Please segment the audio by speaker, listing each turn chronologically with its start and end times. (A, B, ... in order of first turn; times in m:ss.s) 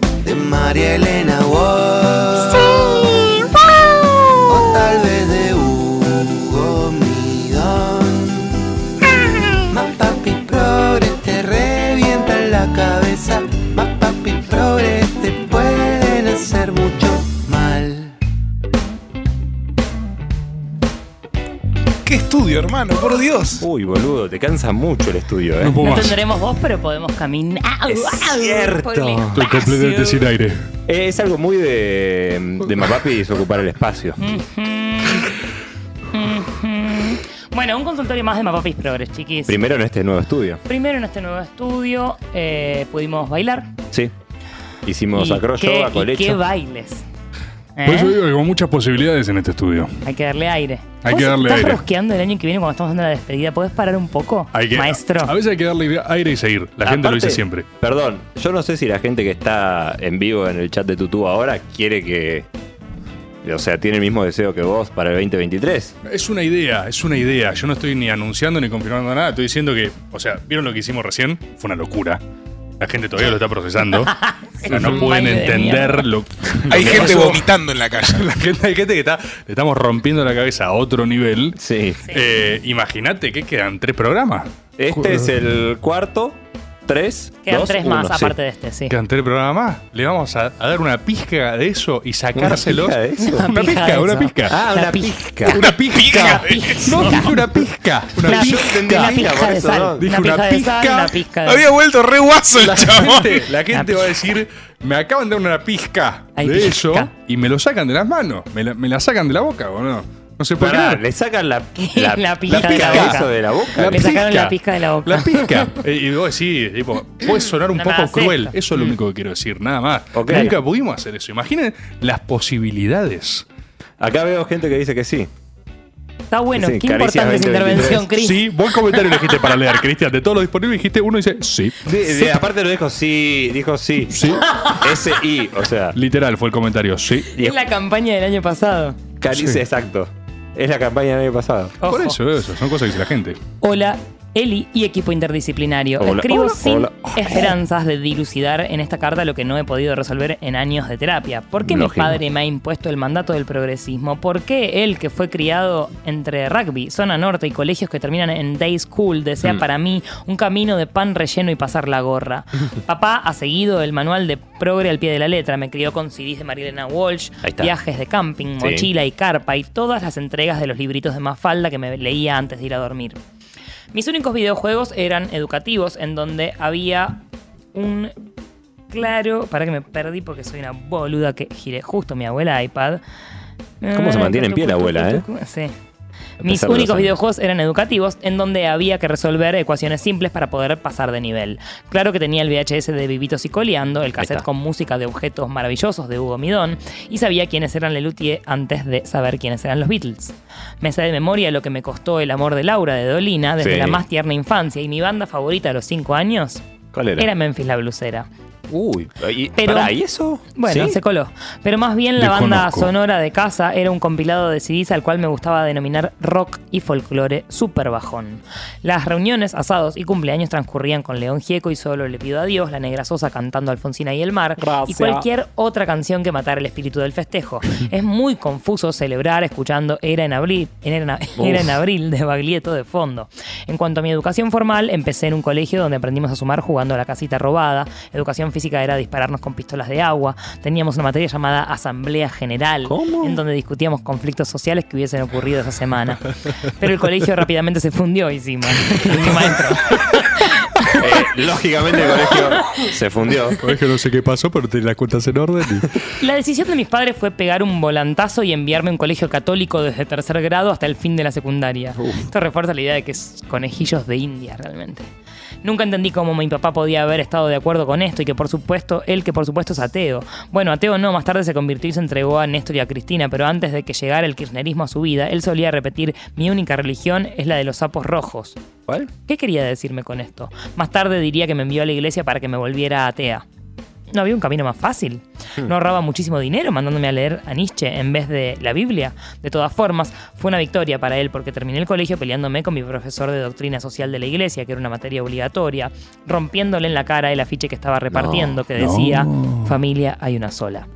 0:00.2-0:08.7 A
0:09.3-0:18.2 A
0:22.0-0:23.6 B
0:23.6-0:25.8 C
0:25.6-0:26.2 D
0:25.8-0:30.3 E
0:27.9-0:29.3 C
0:29.3-0:30.7 D
0:30.8-0:34.4 C
0:34.2-0:35.4 E
0:36.1-0:39.6 E
0:39.5-0:40.6 C
0:40.6-0:43.7 E
0:44.8-0:46.4 C
0:45.1-0:47.0 E
0:47.8-0:48.2 E
0:47.8-0:50.0 D
0:50.0-0:55.3 E
0:51.0-0:51.8 D
0:54.5-0:57.6 D
0:56.9-1:02.5 C
1:03.4-1:05.9 C
1:06.0-1:12.2 D
1:12.8-1:17.4 D
1:14.0-1:16.0 E
1:14.7-1:15.0 C
1:16.7-1:18.3 B
1:16.7-1:17.3 C
1:18.0-1:25.4 D
1:21.6-1:22.0 C
1:24.8-1:28.4 C
1:27.4-1:28.9 E
1:28.9-1:34.6 D
1:32.3-1:33.5 C
1:33.2-1:37.4 E
1:34.5-1:35.6 C
1:35.5-1:39.3 D
1:35.5-1:36.9 B
1:38.2-1:40.1 C
1:38.2-1:41.7 E
1:40.0-1:41.2 D
1:41.4-1:43.5 B
1:42.6-1:51.0 D
1:43.7-1:44.1 E
1:46.4-1:47.1 E
1:50.6-1:54.1 C
1:51.8-1:53.3 E
1:52.5-1:53.2 D
1:53.7-2:03.4 D
1:53.9-1:55.7 E
1:57.7-1:58.5 E
2:00.1-2:00.6 C
2:04.0-2:05.3 C
2:06.3-2:09.6 E
2:06.5-2:08.0 C
2:08.1-2:11.9 D
2:11.8-2:16.0 C
2:14.1-2:14.4 D
2:14.4-2:15.1 E
2:15.9-2:17.3 D
2:17.3-2:19.0 E
2:19.2-2:21.8 C
2:19.3-2:19.6 D
2:21.8-2:22.2 E
2:21.9-2:23.4 D
2:23.6-2:53.2 E
2:26.0-2:27.5 C
2:31.6-2:32.2 C
2:47.4-2:47.7 C
2:48.6-2:48.9 C
2:53.9-2:57.2 E
2:57.7-2:58.1 E
2:58.9-3:03.0 E
3:03.8-3:05.7 E
3:03.9-3:05.2 C
3:06.4-3:07.2 C
3:06.4-3:26.6 E
3:14.2-3:14.4 C
3:23.6-3:24.0 C
3:26.9-3:27.3 C
3:27.2-3:28.3 E
3:28.7-3:31.0 C
3:29.6-3:30.0 E
3:30.5-4:11.0 E
3:32.2-3:32.9 D
3:44.6-3:45.2 C
3:51.4-3:51.7 C
4:02.8-4:03.4 C
4:09.1-4:09.4 D
4:11.0-4:13.6 C
4:12.3-4:12.8 E
4:13.6-4:16.0 D
4:16.2-4:25.1 E
4:22.0-4:22.3 C
4:25.6-4:38.6 E
4:39.2-4:43.4 E
4:44.1-5:00.9 E
4:58.1-4:58.6 C
4:58.8-4:59.8 D